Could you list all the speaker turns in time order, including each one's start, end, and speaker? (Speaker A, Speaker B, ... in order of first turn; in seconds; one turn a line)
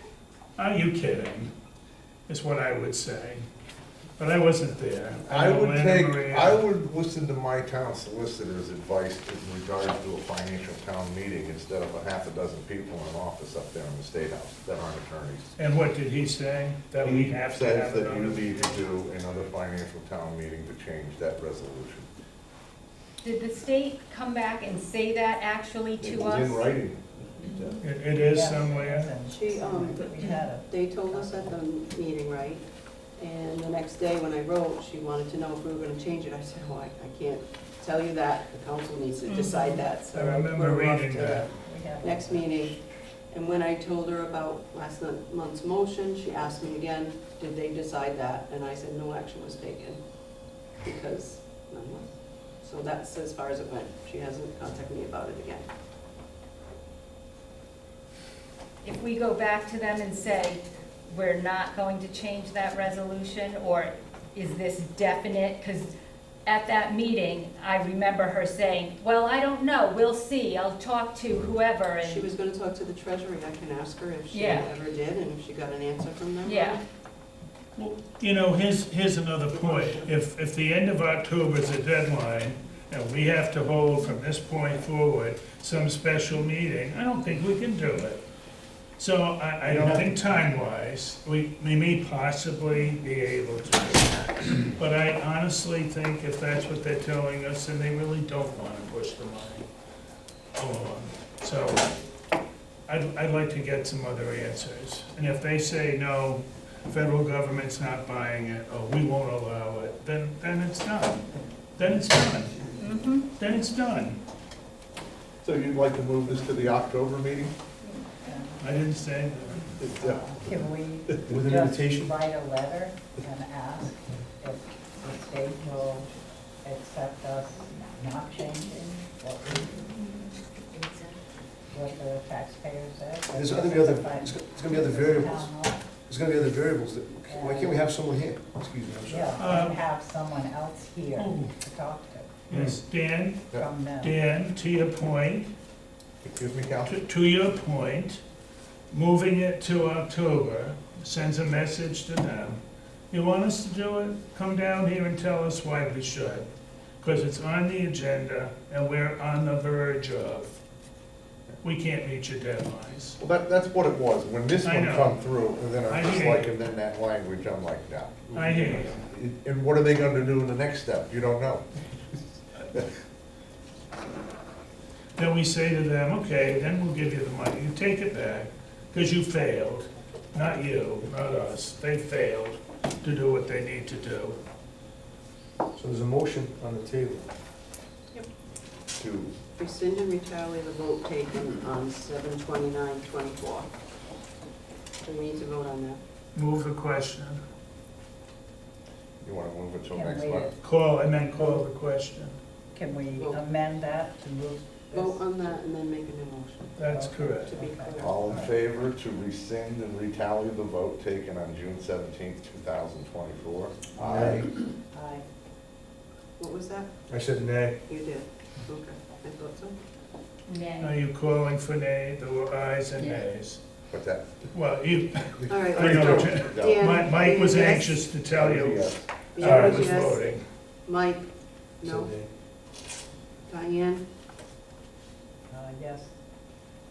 Speaker A: 0.6-1.5
Speaker A: 2.3-3.5
Speaker A: 4.2-6.6
Speaker B: 5.3-15.5
Speaker A: 15.6-19.4
Speaker B: 17.0-22.1
Speaker C: 23.2-26.6
Speaker B: 26.0-27.8
Speaker A: 27.8-29.1
Speaker D: 28.2-31.6
Speaker E: 29.3-32.6
Speaker E: 33.2-42.8
Speaker A: 39.2-41.5
Speaker D: 41.6-42.5
Speaker E: 43.3-50.0
Speaker E: 50.8-52.1
Speaker E: 52.6-55.7
Speaker C: 58.8-65.9
Speaker C: 66.5-72.2
Speaker E: 72.0-76.8
Speaker C: 74.3-74.7
Speaker C: 76.5-76.8
Speaker A: 77.8-88.2
Speaker E: 79.5-80.1
Speaker A: 89.0-99.7
Speaker B: 89.7-90.2
Speaker A: 100.6-101.9
Speaker A: 102.9-112.7
Speaker C: 112.8-113.3
Speaker A: 113.4-114.2
Speaker B: 115.4-117.5
Speaker C: 117.8-118.4
Speaker D: 118.2-118.7
Speaker A: 118.6-119.8
Speaker B: 119.8-120.5
Speaker D: 119.9-126.1
Speaker F: 121.3-122.1
Speaker D: 126.6-129.9
Speaker D: 131.7-135.8
Speaker F: 133.3-135.5
Speaker F: 136.1-139.4
Speaker D: 137.3-137.9
Speaker D: 139.1-142.3
Speaker A: 139.4-139.8
Speaker A: 141.2-141.5
Speaker A: 142.5-143.5
Speaker D: 143.5-144.2
Speaker A: 144.0-145.5
Speaker B: 146.2-147.0
Speaker A: 146.9-148.2
Speaker A: 148.9-152.6
Speaker A: 153.1-156.5
Speaker A: 157.0-160.6
Speaker A: 161.6-163.2
Speaker B: 163.2-172.9
Speaker A: 164.6-165.2
Speaker A: 165.9-166.6
Speaker A: 168.3-169.0
Speaker A: 175.2-184.4
Speaker F: 185.8-187.3
Speaker B: 188.9-189.3
Speaker E: 189.6-193.7
Speaker E: 195.0-196.0
Speaker A: 196.3-197.4
Speaker B: 199.2-200.5
Speaker D: 199.9-200.6
Speaker A: 200.6-202.3
Speaker D: 201.4-201.6
Speaker D: 202.7-205.2
Speaker E: 204.9-206.8
Speaker A: 206.8-207.5
Speaker D: 206.9-208.6
Speaker E: 207.4-208.4
Speaker B: 208.0-214.5
Speaker F: 214.0-214.5
Speaker D: 214.2-215.2
Speaker E: 216.4-216.9
Speaker F: 217.1-217.8
Speaker E: 217.9-219.8
Speaker C: 220.5-221.0
Speaker A: 220.8-223.6
Speaker C: 223.0-223.2
Speaker B: 223.9-224.3
Speaker A: 224.5-230.4
Speaker B: 225.4-226.8
Speaker E: 225.5-228.1
Speaker B: 228.3-229.8
Speaker E: 229.3-230.2
Speaker E: 230.9-231.3
Speaker E: 231.8-232.1
Speaker F: 231.8-232.3
Speaker E: 233.5-234.0
Speaker D: 235.5-236.1